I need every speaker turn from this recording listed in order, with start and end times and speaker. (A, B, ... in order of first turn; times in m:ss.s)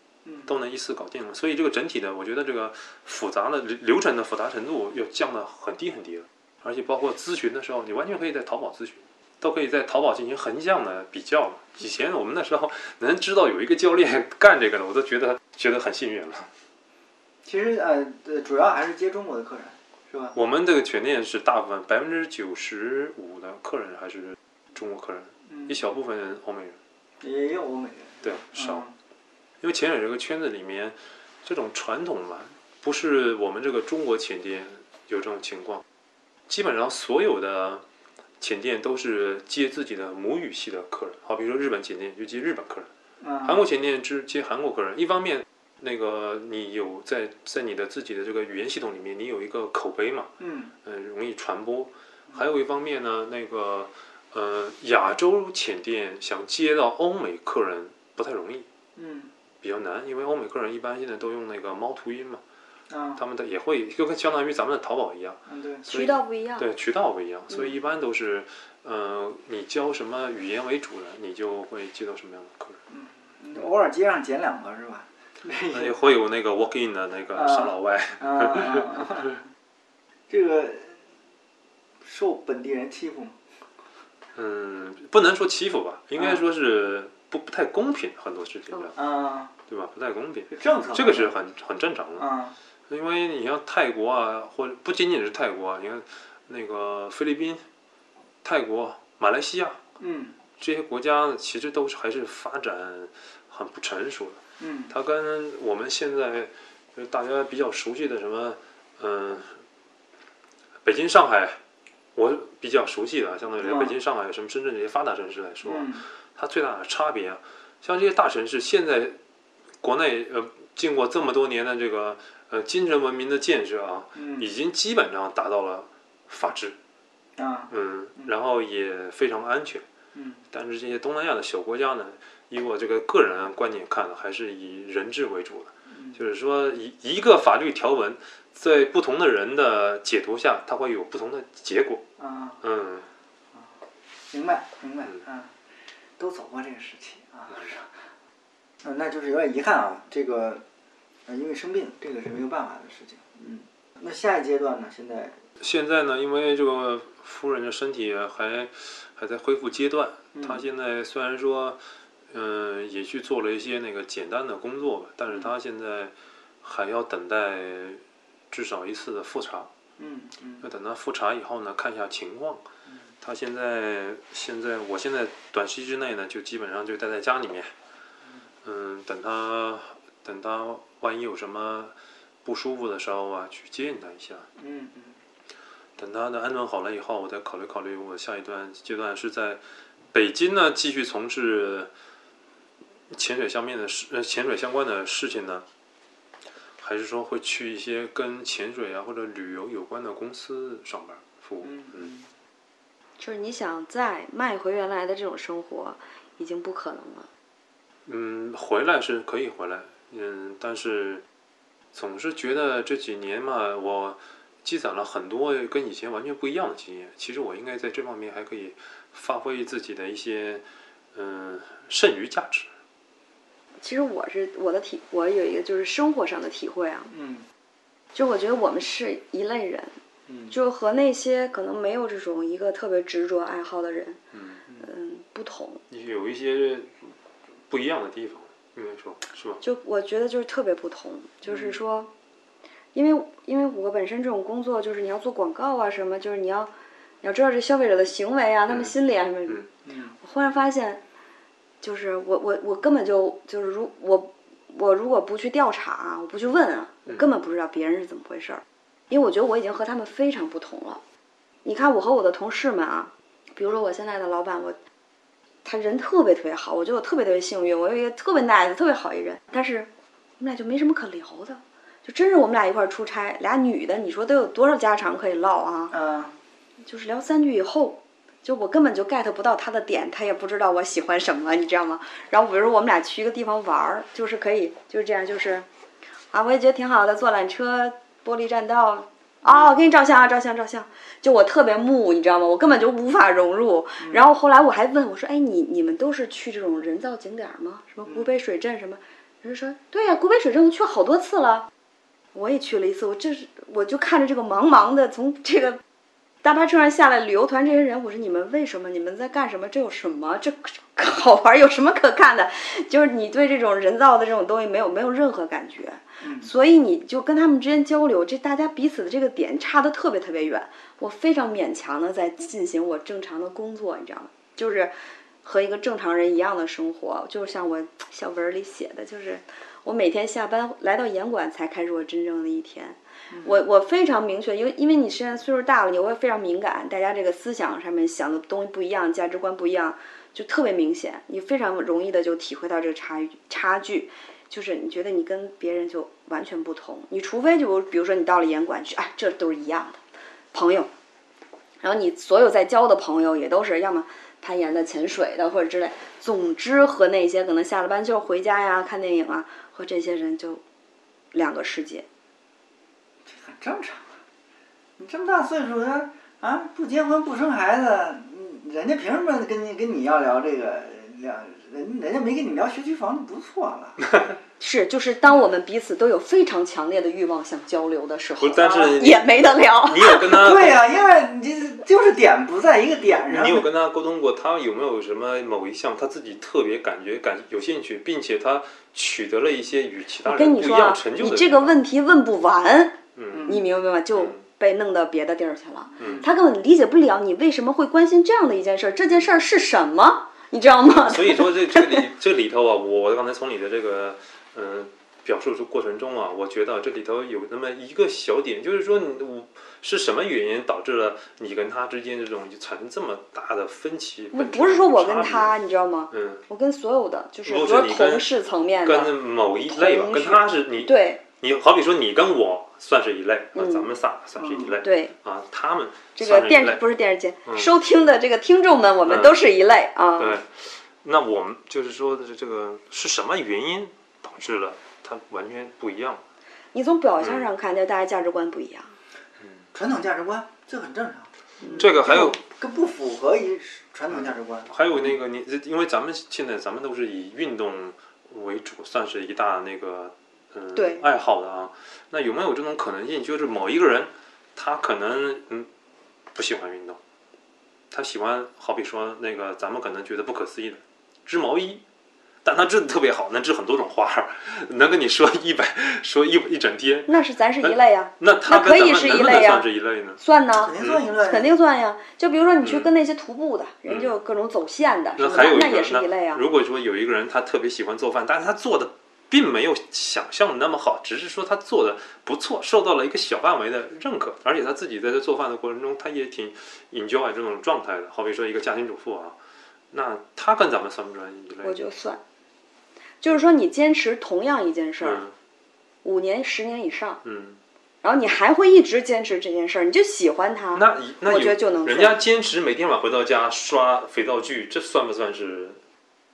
0:00.2-0:00.5 A
0:00.4-0:16.5 B
0:17.4-0:20.4 A
0:20.3-0:26.8 B
0:27.2-0:28.9 A
0:28.2-0:28.8 B
0:29.6-0:35.8 B
0:36.5-0:37.8 B
0:38.4-0:42.9 B
0:43.2-0:43.6 A
0:43.4-0:50.3 B
0:50.4-0:50.7 A
0:50.8-0:58.7 B
0:59.0-0:59.3 A
0:59.6-1:02.4 B
1:02.9-1:03.2 A
1:03.2-1:12.8 B
1:05.5-1:05.9 A
1:05.9-1:06.7 C
1:12.9-1:16.0 A
1:15.7-1:19.2 B
1:17.4-1:19.3 A
1:20.3-1:21.0 A
1:22.0-1:23.4 A
1:24.3-1:29.0 B
1:28.9-1:29.5 A
1:29.7-1:32.3 B
1:30.5-1:31.4 A
1:32.2-1:32.6 A
1:32.9-1:37.6 B
1:38.4-1:39.8 B
1:40.0-1:40.4 A
1:40.6-1:49.6 B
1:44.6-1:44.9 A
1:50.8-1:51.6 B
1:52.2-1:59.2 B
1:53.6-1:54.0 A
1:55.6-1:56.0 A
1:59.8-2:06.8 B
2:04.2-2:04.5 A
2:07.4-2:07.7 A
2:07.7-2:09.8 B
2:10.2-2:10.4 A
2:10.5-2:22.0 B
2:15.9-2:16.2 A
2:22.2-2:22.6 A
2:22.6-2:23.1 B
2:24.3-2:25.6 A
2:26.2-2:28.1 A
2:28.8-2:30.6 A
2:31.3-2:35.4 A
2:35.6-2:49.7 B
2:40.4-2:40.6 A
2:50.0-2:50.7 A
2:50.6-2:52.7 B
2:53.2-2:57.7 B
2:58.6-3:01.9 B
3:02.4-3:04.5 B
3:04.6-3:05.2 A
3:06.0-3:09.6 B
3:10.1-3:11.9 B
3:13.1-3:15.6 B
3:16.8-3:22.1 B
3:21.6-3:22.3 A
3:23.2-3:27.3 C
3:28.1-3:31.2 B
3:31.9-3:42.7 B
3:43.8-3:47.1 C
3:47.1-3:47.5 A
3:48.2-3:50.0 C
3:50.3-3:50.5 A
3:50.5-3:54.2 C
3:54.3-3:54.6 B
3:54.8-3:55.8 C
3:55.9-3:57.2 B
3:57.7-3:59.6 B
3:59.6-4:02.1 C
4:01.5-4:01.7 A
4:03.0-4:06.7 C
4:07.2-4:09.7 C
4:09.9-4:10.2 A
4:10.2-4:11.0 C
4:11.8-4:21.0 C
4:21.6-4:24.8 C
4:25.6-4:36.0 C
4:35.9-4:36.4 A
4:36.8-4:45.7 C
4:46.3-5:01.7 C
5:02.3-5:05.8 C
5:06.4-5:50.0 C
5:16.2-5:16.5 A
5:33.3-5:33.6 A
5:50.5-5:50.9 C
5:51.8-6:00.6 C
6:01.3-6:02.1 C
6:03.2-6:04.2 A
6:05.0-6:14.0 A
6:14.6-6:20.3 C
6:18.4-6:20.8 B
6:20.3-6:23.7 A
6:23.1-6:31.8 B
6:30.2-6:42.1 C
6:33.2-6:33.6 B
6:33.3-6:33.6 A
6:36.0-6:36.2 B
6:36.0-6:36.3 A
6:40.9-6:55.6 B
6:54.3-6:59.1 C
6:56.1-6:56.4 B
6:57.4-7:06.8 B
6:59.7-7:01.2 C
7:03.6-7:03.9 C
7:04.4-7:04.7 A
7:04.8-7:05.2 C
7:06.2-7:10.4 C
7:09.1-7:09.4 B
7:10.2-7:16.2 B
7:16.7-7:19.0 C
7:17.2-7:17.5 B
7:19.7-7:25.1 A
7:21.6-7:21.9 C
7:21.8-7:22.4 B
7:24.2-7:35.7 B
7:30.8-7:31.0 C
7:36.3-7:37.0 B
7:37.9-7:41.8 B
7:42.4-7:50.2 B
7:47.1-7:49.7 C
7:50.2-7:56.4 C
7:50.6-7:51.5 A
7:50.8-7:51.0 B
7:52.6-7:52.9 B
7:53.9-7:54.1 B
7:55.2-8:09.4 B
8:09.9-8:11.8 B
8:11.6-8:12.2 C
8:13.2-8:15.2 C
8:15.0-8:15.3 B
8:16.0-8:17.2 C
8:17.2-8:17.6 B
8:18.0-8:22.2 C
8:20.7-8:25.8 B